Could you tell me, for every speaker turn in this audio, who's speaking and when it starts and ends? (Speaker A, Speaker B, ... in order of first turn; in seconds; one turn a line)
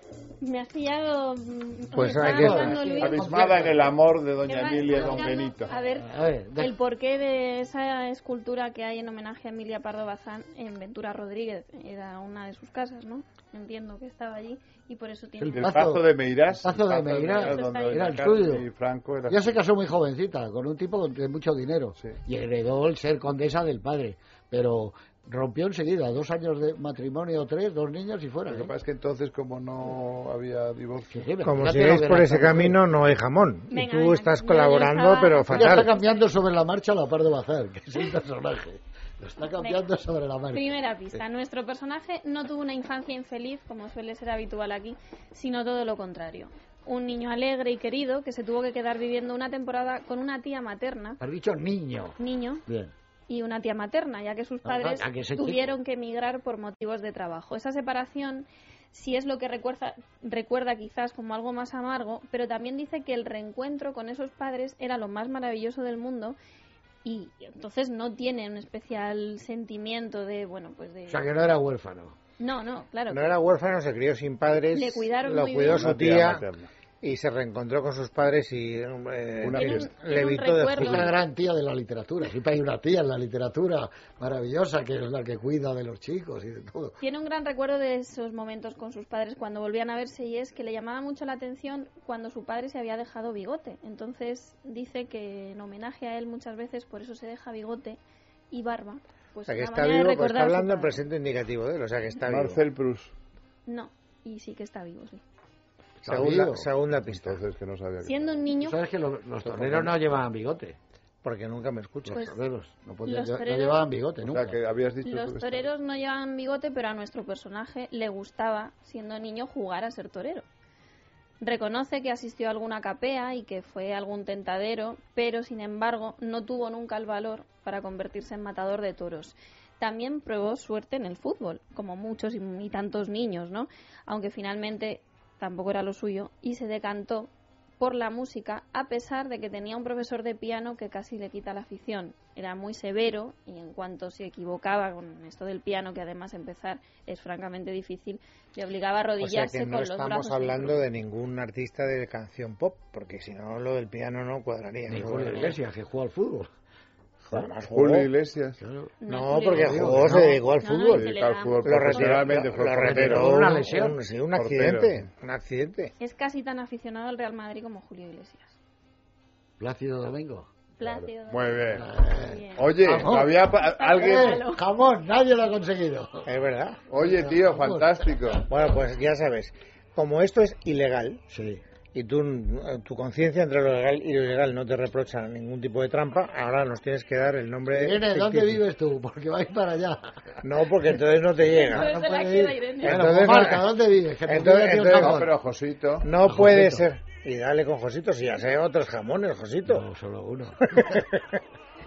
Speaker A: 0.4-3.3
Speaker B: 1.9-2.9
Speaker C: 2.2-3.9
Speaker D: 3.0-5.7
Speaker A: 4.4-15.8
Speaker C: 4.9-5.2
Speaker C: 5.9-6.8
Speaker C: 15.4-18.7
Speaker D: 15.5-19.6
Speaker A: 17.3-18.4
Speaker C: 19.3-28.7
Speaker D: 28.4-31.3
Speaker C: 31.1-32.8
Speaker B: 31.4-35.9
Speaker A: 33.7-36.1
Speaker C: 35.5-41.2
Speaker A: 39.6-39.9
Speaker A: 40.5-51.2
Speaker C: 51.2-52.9
Speaker A: 52.2-52.6
Speaker A: 53.3-66.4
Speaker C: 54.6-55.7
Speaker A: 67.0-71.3
Speaker C: 71.1-72.2
Speaker A: 72.4-73.4
Speaker B: 73.1-76.4
Speaker A: 74.7-75.9
Speaker D: 75.8-76.7
Speaker B: 77.0-81.1
Speaker D: 79.4-79.9
Speaker A: 79.5-81.2
Speaker C: 80.8-87.0
Speaker A: 87.0-98.0
Speaker A: 98.5-101.0
Speaker B: 99.5-102.6
Speaker D: 102.2-103.1
Speaker A: 103.7-105.2
Speaker C: 106.0-106.7
Speaker B: 106.0-107.4
Speaker D: 107.0-108.2
Speaker A: 108.0-108.8
Speaker C: 108.6-110.8
Speaker D: 109.4-110.0
Speaker B: 111.2-112.3
Speaker C: 112.1-114.6
Speaker A: 112.1-112.4
Speaker A: 113.0-113.8
Speaker D: 114.2-115.7
Speaker A: 115.0-120.5
Speaker A: 121.4-150.9
Speaker B: 149.2-155.6
Speaker C: 154.8-156.5
Speaker B: 157.3-158.1
Speaker D: 157.6-158.6
Speaker C: 158.6-160.4
Speaker A: 159.0-162.4
Speaker B: 159.1-165.9
Speaker D: 160.9-163.3
Speaker C: 162.8-164.0
Speaker D: 164.3-165.1
Speaker A: 166.0-168.6
Speaker C: 169.6-171.1
Speaker A: 170.8-172.8
Speaker D: 171.3-171.8
Speaker C: 171.7-176.3
Speaker D: 172.6-174.3
Speaker A: 173.6-174.6
Speaker B: 176.2-176.8
Speaker D: 176.9-178.4
Speaker C: 176.9-177.9
Speaker B: 178.4-181.2
Speaker C: 181.3-181.6
Speaker B: 181.9-188.6
Speaker C: 187.7-190.4
Speaker B: 190.4-191.9
Speaker C: 191.5-195.3
Speaker A: 191.5-193.0
Speaker B: 192.8-193.7
Speaker B: 194.3-195.2
Speaker D: 195.0-196.1
Speaker B: 196.0-199.8
Speaker C: 196.2-196.9
Speaker C: 199.7-201.0
Speaker B: 200.7-201.2